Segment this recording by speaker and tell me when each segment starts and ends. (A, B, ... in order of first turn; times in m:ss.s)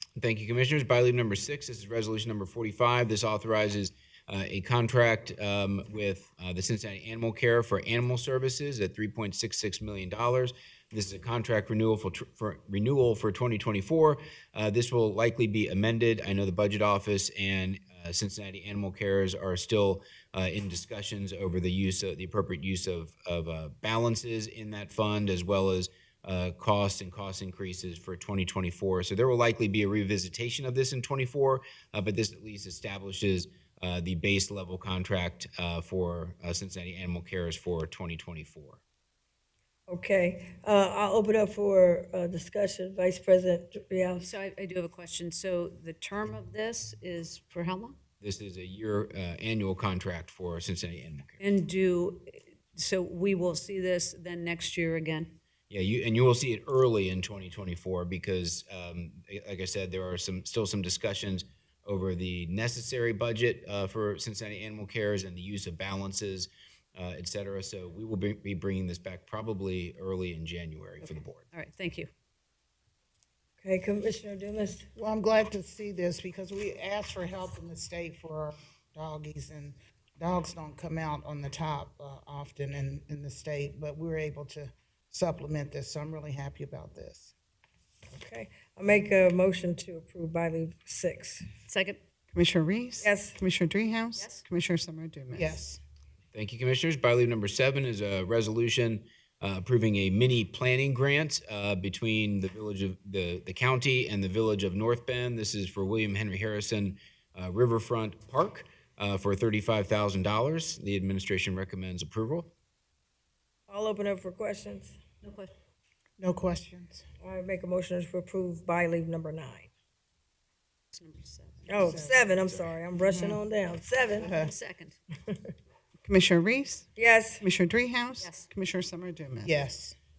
0:00.2-0:38.8 A
0:39.9-0:44.3 B
0:44.2-0:48.0 C
0:48.2-0:51.4 A
0:51.4-0:55.4 C
0:55.7-1:11.4 A
1:11.5-1:12.1 C
1:13.6-1:14.9 B
1:14.9-1:27.3 D
1:28.1-1:31.4 B
1:31.7-1:32.0 C
1:32.3-1:35.6 E
1:33.0-1:33.4 B
1:34.2-1:34.4 C
1:35.3-1:35.8 D
1:36.3-1:52.5 A
1:53.7-1:55.0 B
1:55.2-1:55.5 C
1:56.2-1:57.0 D
1:57.2-1:59.7 B
2:00.9-2:02.7 C
2:01.7-2:04.3 B
2:03.0-2:03.4 D
2:04.1-2:05.0 C
2:04.2-2:04.5 D
2:06.0-2:06.9 E
2:07.0-2:07.4 B
2:07.4-2:09.5 E
2:08.2-2:08.5 C
2:09.4-2:10.0 D